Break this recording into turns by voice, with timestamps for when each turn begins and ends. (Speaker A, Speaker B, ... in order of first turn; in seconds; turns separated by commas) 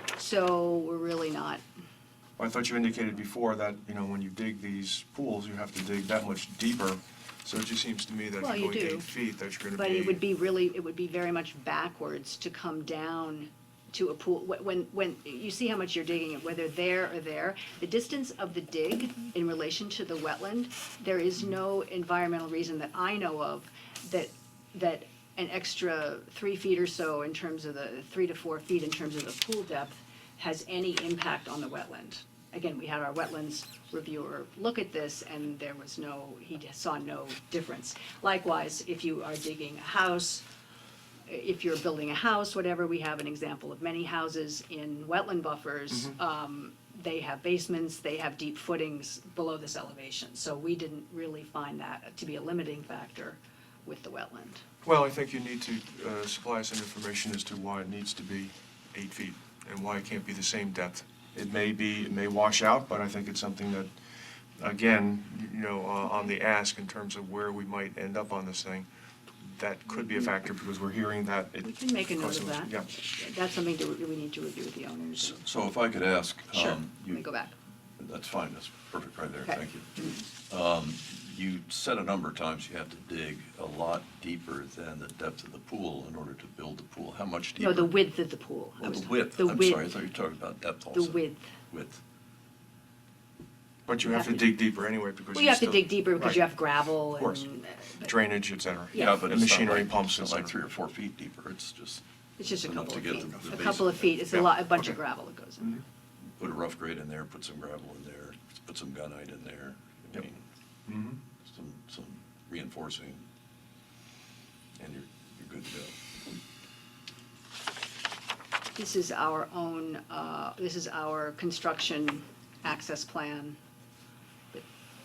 Speaker A: 0.1-1.6, Speaker B: 2.4-10.2, Speaker A: 8.4-9.1, Speaker A: 9.7-40.5, Speaker A: 41.3-54.6, Speaker B: 54.8-63.9, Speaker B: 64.6-68.9, Speaker B: 69.4-72.9, Speaker A: 71.6-75.4, Speaker C: 75.2-77.3, Speaker A: 76.5-77.5, Speaker C: 78.0-88.0, Speaker A: 79.4-80.1, Speaker A: 87.6-89.9, Speaker C: 88.8-92.0, Speaker A: 90.9-91.5, Speaker B: 93.9-96.5, Speaker A: 94.0-94.5, Speaker A: 95.3-98.1, Speaker B: 97.2-97.5, Speaker B: 98.0-100.5, Speaker A: 98.9-99.2, Speaker C: 98.9-104.5, Speaker A: 102.4-105.8, Speaker B: 104.3-105.0, Speaker C: 106.4-110.4, Speaker B: 110.9-111.2, Speaker C: 111.4-113.2, Speaker C: 114.8-116.0, Speaker A: 118.8-123.6